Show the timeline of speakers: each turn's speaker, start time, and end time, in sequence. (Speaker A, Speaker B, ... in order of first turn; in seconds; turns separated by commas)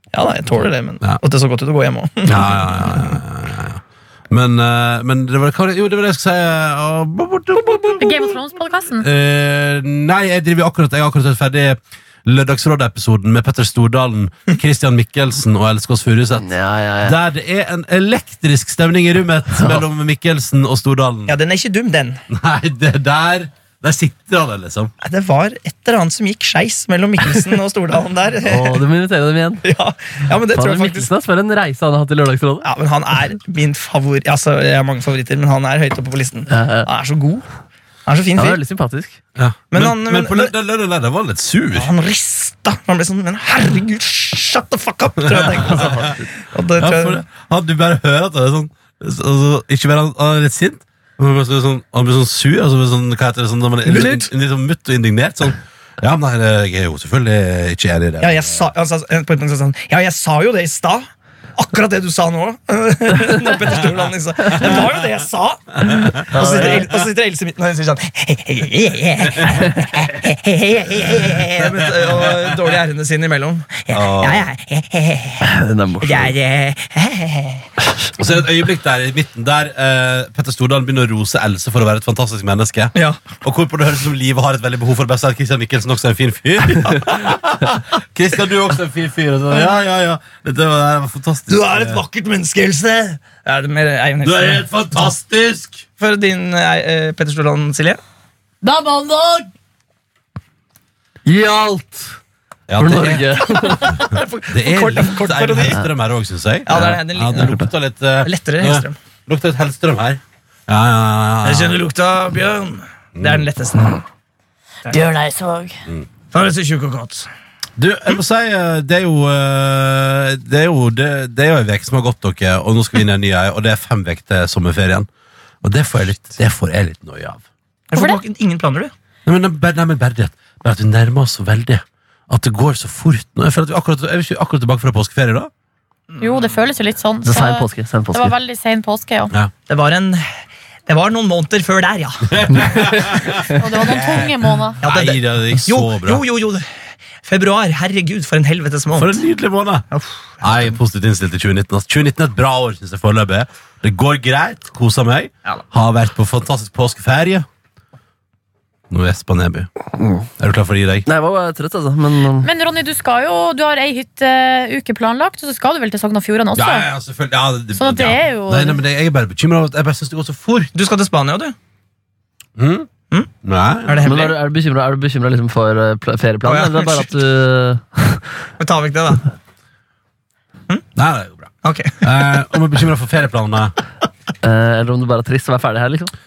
Speaker A: 0.1-3.2, Speaker B: 2.2-8.4, Speaker C: 8.0-9.1, Speaker B: 9.0-21.4, Speaker D: 16.4-17.2, Speaker A: 21.3-22.2, Speaker B: 22.3-24.9, Speaker A: 25.0-28.8, Speaker D: 28.5-29.6, Speaker A: 29.6-31.1, Speaker D: 30.5-32.7, Speaker A: 32.6-37.4, Speaker D: 36.5-36.9, Speaker A: 38.1-38.6, Speaker D: 38.4-39.2, Speaker B: 39.4-41.9, Speaker A: 39.7-40.5, Speaker A: 41.7-47.2, Speaker B: 45.3-46.0, Speaker D: 45.5-46.2, Speaker B: 46.8-58.6, Speaker A: 53.9-54.3, Speaker A: 58.2-75.5, Speaker D: 66.3-66.9, Speaker B: 71.6-72.5, Speaker B: 73.9-74.5, Speaker D: 75.4-76.3, Speaker A: 76.0-77.7, Speaker B: 78.2-92.0, Speaker A: 83.0-83.4, Speaker A: 91.5-95.1, Speaker B: 94.2-95.8, Speaker A: 96.0-98.0, Speaker C: 98.7-99.5, Speaker D: 101.2-102.1, Speaker B: 102.7-111.8, Speaker D: 102.8-104.0, Speaker A: 103.9-105.8, Speaker A: 106.7-107.6, Speaker D: 106.7-107.7, Speaker A: 108.2-109.0, Speaker A: 111.4-114.0, Speaker B: 113.2-113.5, Speaker C: 114.9-115.8, Speaker A: 116.3-117.3, Speaker B: 117.8-125.1, Speaker B: 125.6-127.4, Speaker A: 127.9-128.9, Speaker C: 128.0-128.2, Speaker B: 129.3-135.5, Speaker A: 136.1-136.6, Speaker C: 136.2-139.3, Speaker D: 137.2-138.3, Speaker A: 139.7-140.3, Speaker A: 140.9-142.3, Speaker B: 142.3-144.3, Speaker C: 143.6-144.8, Speaker B: 144.8-146.2, Speaker A: 144.8-146.7, Speaker A: 147.2-149.2, Speaker B: 149.0-149.8, Speaker A: 149.9-150.8, Speaker B: 150.4-157.5, Speaker B: 158.9-159.7, Speaker B: 160.4-161.1, Speaker D: 161.1-162.5, Speaker C: 162.4-166.9, Speaker B: 166.6-170.7, Speaker C: 167.8-168.8, Speaker A: 170.8-171.6, Speaker B: 172.6-172.9, Speaker B: 173.4-174.1, Speaker A: 173.9-174.4, Speaker D: 174.0-178.2, Speaker A: 176.4-177.1, Speaker A: 178.6-179.2, Speaker B: 181.0-183.7, Speaker A: 181.6-182.1, Speaker D: 184.4-186.1